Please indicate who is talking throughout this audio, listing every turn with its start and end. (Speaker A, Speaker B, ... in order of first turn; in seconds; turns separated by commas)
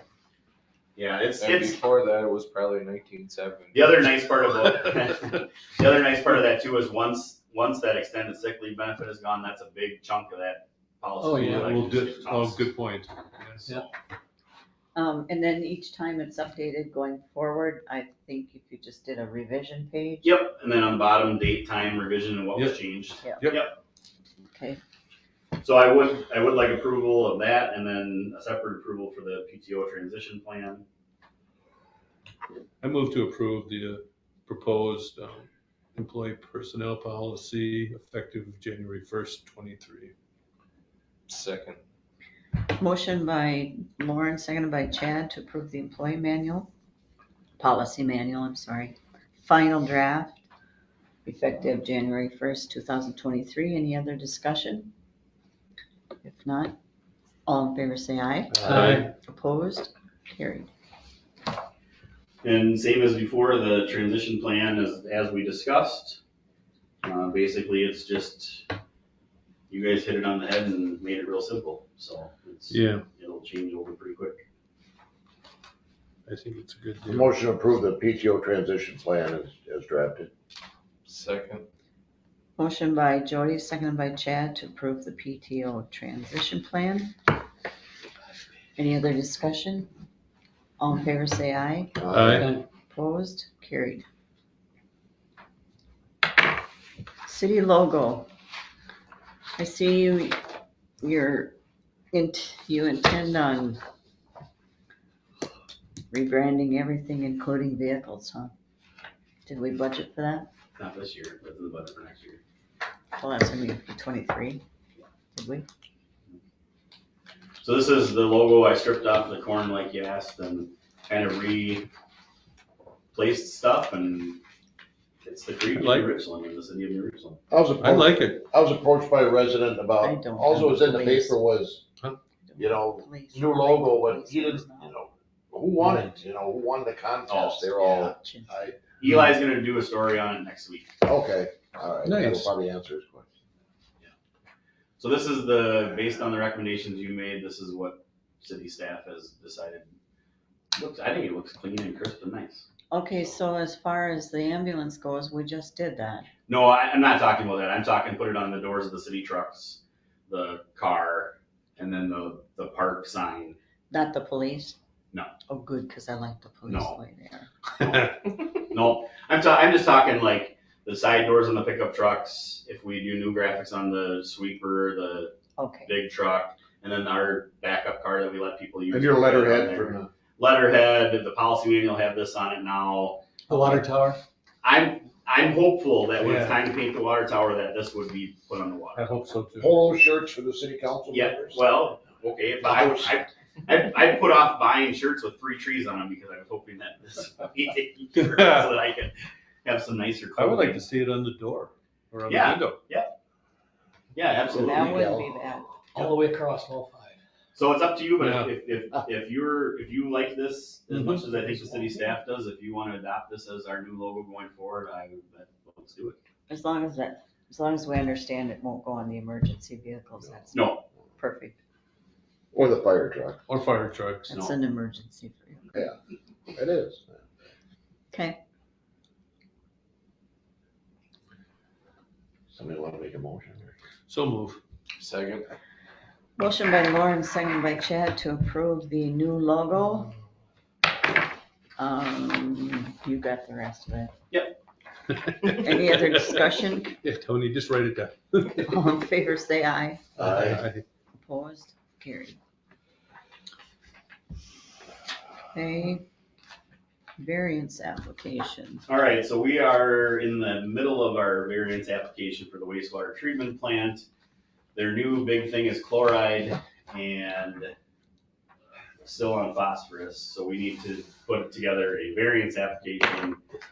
Speaker A: 1.0-1.8, Speaker B: 1.4-4.0, Speaker A: 3.7-12.7, Speaker C: 11.2-13.8, Speaker D: 14.9-20.4, Speaker A: 20.2-23.8, Speaker C: 22.5-23.7, Speaker D: 24.5-24.8, Speaker A: 25.6-30.9, Speaker C: 32.8-40.1, Speaker B: 41.3-41.8, Speaker D: 42.7-46.7, Speaker D: 47.6-50.4, Speaker D: 51.2-54.9, Speaker D: 56.2-56.8, Speaker D: 57.5-60.7, Speaker C: 58.5-59.1, Speaker E: 58.6-59.0, Speaker A: 62.4-66.2, Speaker A: 67.0-68.7, Speaker A: 69.7-74.4, Speaker C: 72.7-73.1, Speaker C: 76.3-77.3, Speaker F: 77.1-80.3, Speaker B: 81.1-81.7, Speaker D: 82.6-87.2, Speaker D: 88.8-89.9, Speaker D: 90.8-92.0, Speaker F: 92.0-92.5, Speaker C: 92.1-92.5, Speaker E: 92.4-92.7, Speaker D: 92.9-94.0, Speaker D: 97.2-98.3, Speaker D: 99.6-100.4, Speaker D: 101.0-101.6, Speaker D: 102.1-103.8, Speaker D: 106.1-108.5, Speaker D: 109.5-110.5, Speaker A: 110.8-112.4, Speaker D: 113.2-114.6, Speaker D: 115.3-115.7, Speaker A: 117.6-121.9, Speaker A: 123.1-124.4, Speaker A: 125.2-127.4, Speaker C: 125.7-126.2, Speaker F: 127.5-131.8, Speaker C: 127.8-128.4, Speaker D: 130.0-131.4, Speaker D: 132.4-134.9, Speaker F: 132.6-138.8, Speaker A: 137.3-138.1, Speaker D: 138.0-138.7, Speaker A: 139.0-140.9, Speaker F: 141.0-143.3, Speaker C: 142.1-142.5, Speaker A: 145.0-149.9, Speaker A: 150.8-152.7, Speaker D: 152.9-156.3, Speaker A: 156.5-163.6, Speaker D: 163.9-164.8, Speaker D: 165.5-167.5, Speaker A: 166.7-167.0, Speaker A: 168.6-175.3, Speaker D: 175.6-175.9, Speaker A: 175.9-183.3, Speaker F: 178.9-180.1, Speaker D: 183.5-183.8, Speaker E: 183.5-184.2, Speaker A: 184.6-189.0, Speaker C: 186.2-186.6, Speaker C: 188.9-189.8, Speaker F: 189.6-191.7, Speaker A: 191.1-200.8, Speaker F: 192.6-193.2, Speaker C: 198.2-198.8, Speaker C: 200.4-202.8, Speaker A: 202.3-203.1, Speaker A: 204.2-205.1, Speaker D: 204.5-205.7, Speaker F: 204.6-205.4, Speaker E: 205.9-207.2, Speaker A: 207.6-216.2, Speaker C: 208.2-208.6, Speaker C: 210.9-211.4, Speaker D: 216.5-221.6, Speaker A: 220.5-220.8, Speaker F: 222.5-223.4, Speaker C: 223.5-224.3, Speaker D: 224.3-225.8, Speaker A: 224.3-224.6, Speaker F: 226.6-227.2, Speaker D: 228.1-228.4, Speaker F: 232.5-233.7, Speaker C: 234.1-234.6, Speaker B: 235.0-235.5, Speaker D: 236.4-240.1, Speaker D: 241.8-244.1, Speaker A: 244.3-244.6, Speaker C: 245.2-246.4, Speaker D: 245.5-247.0, Speaker C: 246.9-248.9, Speaker D: 248.6-250.0, Speaker C: 250.2-250.8, Speaker A: 250.2-250.5, Speaker D: 251.2-252.4, Speaker D: 255.5-256.0, Speaker D: 257.2-258.9, Speaker A: 258.9-264.1, Speaker A: 264.8-267.7, Speaker A: 269.0-273.4